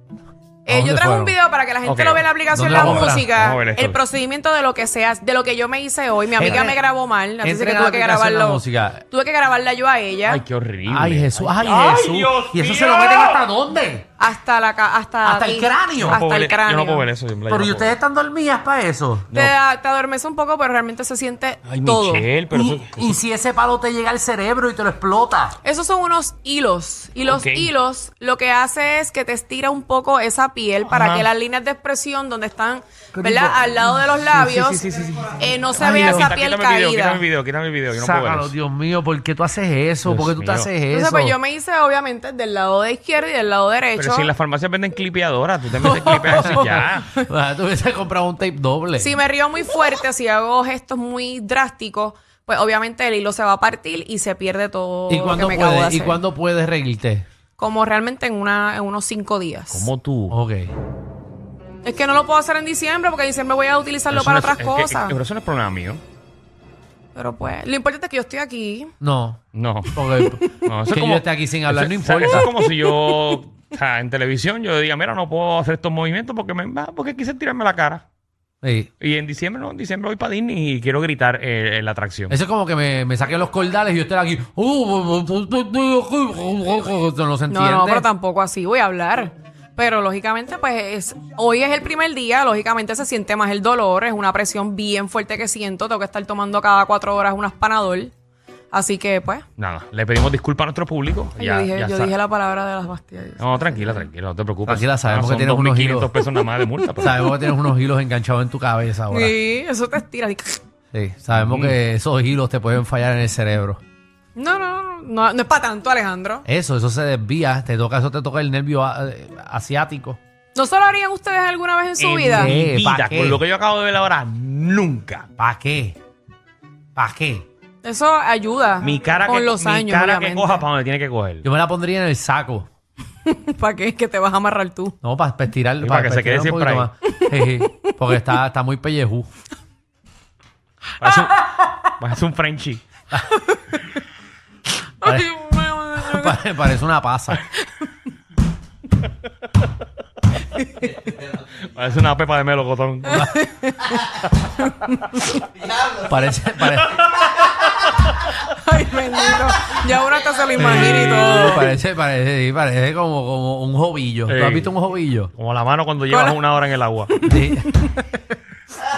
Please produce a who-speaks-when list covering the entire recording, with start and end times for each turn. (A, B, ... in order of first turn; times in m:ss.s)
0:00.7-0:10.4 A
0:00.7-0:01.4 B
0:01.8-0:04.0 C
0:02.5-0:03.3 B
0:06.4-0:06.8 B
0:06.4-0:06.7 C
0:07.4-0:09.0 B
0:10.3-0:13.4 C
0:10.9-0:14.1 B
0:14.2-0:17.1 A
0:15.2-0:16.2 B
0:16.0-0:18.0 C
0:17.5-0:19.3 B
0:19.3-0:19.6 C
0:19.3-0:22.3 A
0:21.7-0:23.2 C
0:22.5-0:25.6 B
0:25.6-0:37.2 A
0:27.3-0:27.7 C
0:30.9-0:31.3 C
0:33.2-0:33.6 B
0:34.3-0:36.3 B
0:35.8-0:38.5 C
0:37.9-0:41.4 B
0:40.0-0:40.7 C
0:40.9-0:44.3 A
0:44.0-0:47.1 C
0:45.8-0:47.2 A
0:46.1-0:49.2 B
0:49.0-0:56.2 A
0:55.1-0:57.3 B
0:57.6-0:59.9 A
0:59.7-1:00.4 C
1:00.3-1:00.7 B
1:01.8-1:05.2 A
1:04.1-1:06.0 C
1:07.2-1:08.9 A
1:09.0-1:09.4 B
1:09.5-1:10.0 C
1:09.9-1:12.6 B
1:10.2-1:10.7 A
1:10.6-1:18.0 C
1:12.7-1:13.4 A
1:18.6-1:18.9 B
1:19.0-1:22.4 C
1:22.3-1:28.1 B
1:27.5-1:38.1 A
1:38.7-1:39.4 A
1:39.6-1:42.1 C
1:41.4-1:44.0 A
1:43.4-1:47.3 C
1:44.7-1:46.1 B
1:47.0-1:49.4 B
1:49.1-1:50.6 A
1:50.9-1:53.8 B
1:51.3-1:51.8 C
1:54.4-1:56.4 A
1:56.5-2:00.2 B
2:00.5-2:02.5 A
2:02.0-2:05.3 C
2:02.3-2:03.4 B
2:05.4-2:06.0 B
2:07.0-2:07.5 B
2:07.8-2:10.6 A
2:08.8-2:11.5 C
2:11.4-2:12.7 B
2:13.3-2:15.0 A
2:15.0-2:19.3 B
2:15.8-2:16.9 C
2:17.1-2:17.9 A
2:21.0-2:22.8 C
2:21.0-2:21.7 A
2:23.3-2:23.8 A
2:25.0-2:26.4 A
2:25.0-2:25.4 B
2:26.0-2:27.4 B
2:30.5-2:31.0 A
2:31.7-2:33.3 C
2:33.1-2:35.2 A
2:35.9-2:37.1 B
2:38.4-2:41.7 A
2:40.6-2:45.3 B
2:44.3-2:44.7 C
2:45.4-2:47.2 C
2:46.1-2:46.4 A
2:47.1-2:48.1 A
2:47.2-2:47.7 B